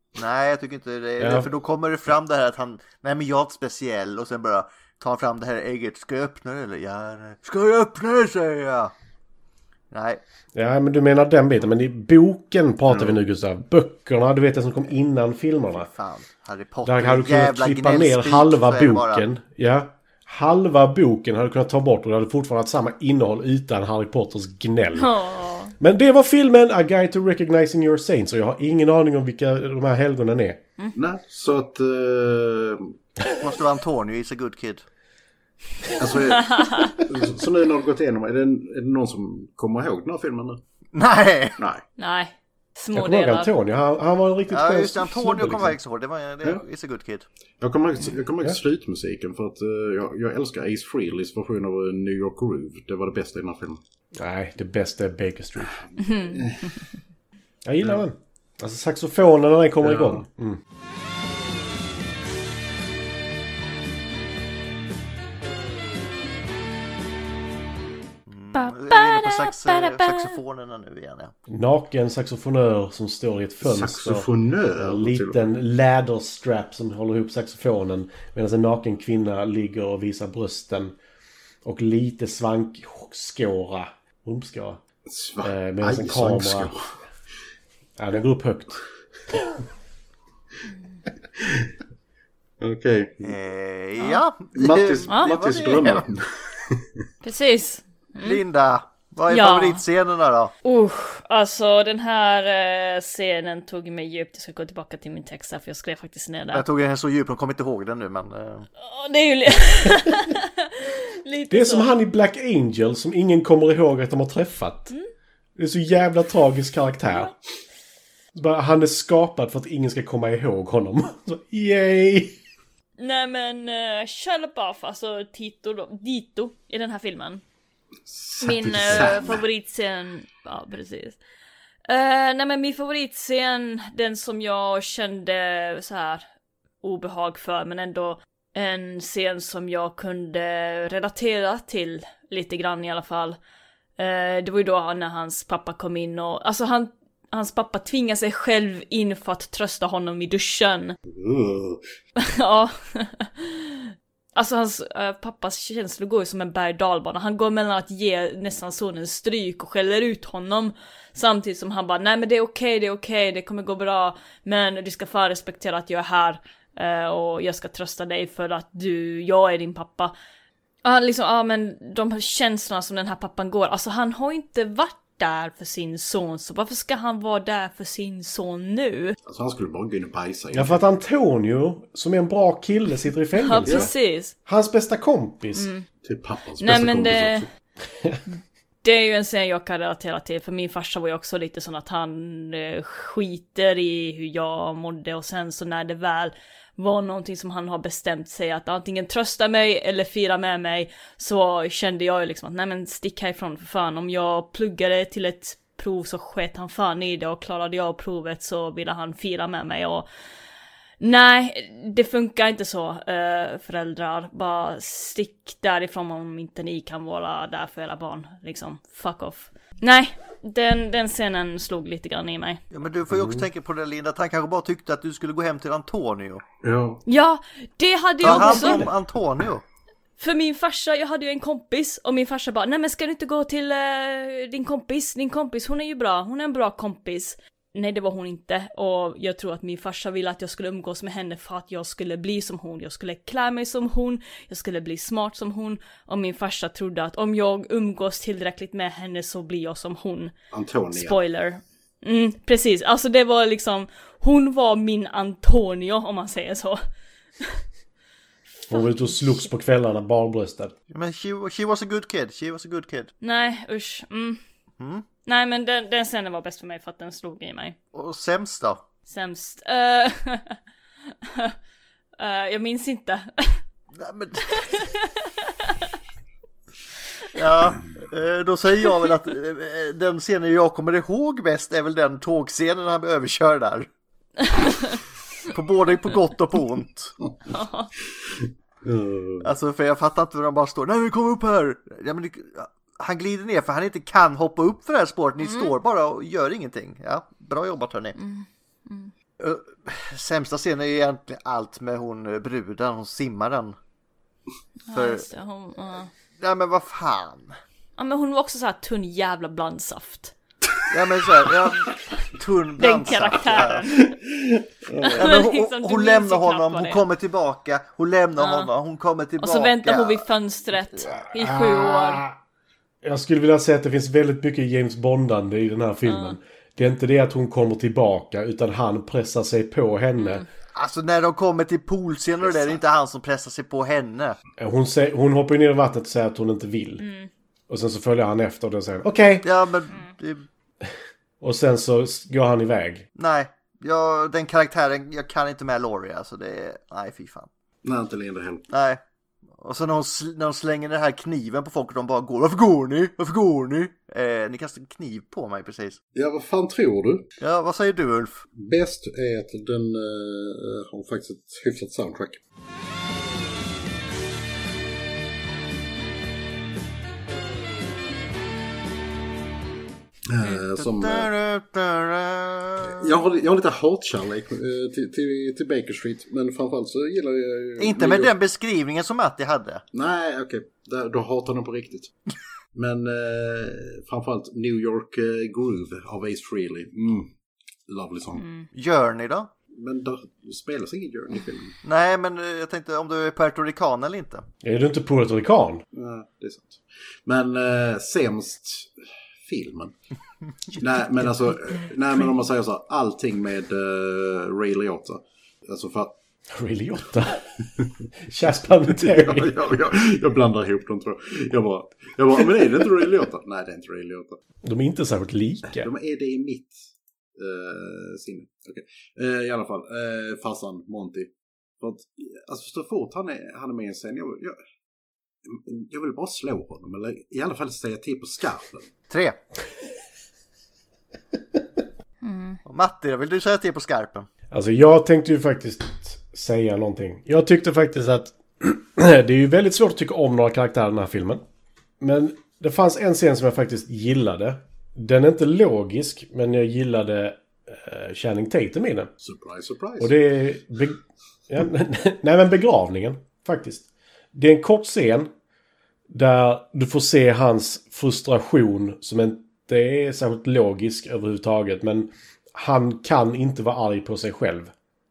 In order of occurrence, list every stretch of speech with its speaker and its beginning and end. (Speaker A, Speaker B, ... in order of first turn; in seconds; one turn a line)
Speaker A: 0.1-8.9
Speaker B: 1.2-1.5
Speaker A: 9.9-10.2
Speaker B: 10.6-15.9
Speaker C: 12.9-13.2
Speaker A: 15.8-19.2
Speaker B: 16.9-25.1
Speaker D: 25.0-25.7
Speaker B: 25.8-30.6
Speaker C: 30.9-32.9
Speaker A: 33.3-34.8
Speaker C: 35.9-40.6
Speaker D: 36.4-36.9
Speaker A: 40.9-41.6
Speaker D: 42.0-43.5
Speaker B: 42.9-45.8
Speaker A: 44.5-47.3
Speaker C: 47.6-53.8
Speaker B: 54.2-55.8
Speaker C: 56.0-56.7
Speaker D: 56.0-56.5
Speaker B: 57.6-60.6
Speaker C: 59.8-60.2
Speaker A: 68.3-71.3
Speaker D: 68.5-70.4
Speaker B: 71.5-81.0
Speaker C: 73.6-75.4
Speaker B: 81.6-84.8
Speaker C: 85.1-86.8
Speaker B: 85.4-86.8
Speaker B: 88.0-88.8
Speaker C: 91.4-91.7
Speaker C: 92.6-93.3
Speaker A: 93.2-96.1
Speaker C: 94.5-96.9
Speaker D: 95.1-95.3
Speaker D: 97.2-98.4
Speaker A: 98.2-100.5
Speaker D: 99.3-99.8
Speaker D: 100.6-106.6
Speaker A: 106.5-108.7
Speaker D: 108.8-111.9
Speaker B: 111.5-114.9
Speaker B: 115.6-117.3
Speaker B: 118.3-122.4
Speaker D: 123.0-127.4
Speaker C: 128.1-129.4
Speaker D: 128.4-131.2
Speaker D: 131.9-136.2
Speaker D: 136.8-143.4
Speaker D: 144.0-151.0
Speaker C: 151.1-151.8
Speaker D: 152.2-170.1
Speaker D: 170.8-179.2
Speaker C: 179.2-180.8
Speaker B: 180.5-185.7
Speaker D: 183.3-184.3
Speaker D: 185.6-185.9
Speaker C: 186.0-187.5
Speaker D: 186.6-187.5
Speaker D: 188.8-210.1
Speaker D: 211.0-222.6
Speaker A: 222.7-226.4
Speaker B: 223.1-223.4
Speaker C: 226.6-227.0
Speaker D: 227.1-228.9
Speaker A: 228.2-229.6
Speaker D: 230.2-250.3
Speaker C: 250.5-251.2
Speaker D: 250.9-256.8
Speaker B: 258.7-260.7
Speaker D: 258.7-259.5
Speaker A: 260.9-263.1
Speaker D: 263.2-264.4
Speaker A: 264.8-265.1
Speaker D: 265.3-267.8
Speaker A: 267.9-268.8
Speaker D: 269.1-270.6
Speaker D: 272.2-273.6
Speaker A: 274.0-274.8
Speaker D: 274.5-275.7
Speaker A: 277.3-283.9
Speaker D: 284.4-285.0
Speaker A: 285.5-287.1
Speaker D: 287.5-287.9
Speaker C: 288.3-289.5
Speaker A: 289.4-298.2
Speaker D: 295.4-295.7
Speaker D: 298.2-299.1
Speaker A: 299.4-303.8
Speaker D: 304.9-306.1
Speaker A: 304.9-305.2
Speaker A: 306.4-307.6
Speaker D: 308.0-310.3
Speaker A: 310.9-313.8
Speaker D: 312.8-314.1
Speaker C: 314.1-315.3
Speaker D: 315.0-317.0
Speaker A: 315.1-320.2
Speaker D: 318.4-318.7
Speaker D: 319.4-322.2
Speaker B: 321.3-322.4
Speaker B: 323.0-330.4
Speaker D: 326.1-326.4
Speaker D: 330.2-330.5
Speaker A: 330.8-334.4
Speaker B: 334.6-337.0
Speaker D: 337.0-337.3
Speaker B: 337.7-339.5
Speaker A: 339.4-340.5
Speaker B: 341.4-343.0
Speaker A: 343.2-347.5
Speaker C: 347.8-348.7
Speaker A: 348.7-349.0
Speaker A: 349.6-356.0
Speaker C: 356.1-357.2
Speaker A: 357.4-358.4
Speaker C: 358.6-362.4
Speaker C: 370.3-371.3
Speaker A: 370.4-373.1
Speaker C: 372.8-378.3
Speaker A: 377.8-379.8
Speaker C: 379.9-382.1
Speaker C: 382.8-387.3
Speaker C: 387.9-388.4
Speaker D: 388.4-388.7
Speaker A: 388.7-389.5
Speaker C: 389.8-391.8
Speaker A: 391.8-394.4
Speaker B: 394.6-395.8
Speaker C: 395.9-398.9
Speaker C: 399.4-399.9
Speaker C: 400.7-406.2
Speaker B: 406.5-407.4
Speaker B: 408.3-409.5
Speaker C: 408.9-414.4
Speaker B: 414.6-415.9
Speaker C: 415.8-416.8
Speaker C: 417.4-424.6
Speaker C: 425.4-428.9
Speaker A: 429.1-429.4
Speaker D: 432.2-432.6
Speaker A: 432.7-434.3
Speaker B: 434.5-441.4
Speaker B: 442.0-449.1
Speaker C: 449.2-450.1
Speaker B: 450.0-455.3
Speaker B: 456.1-464.7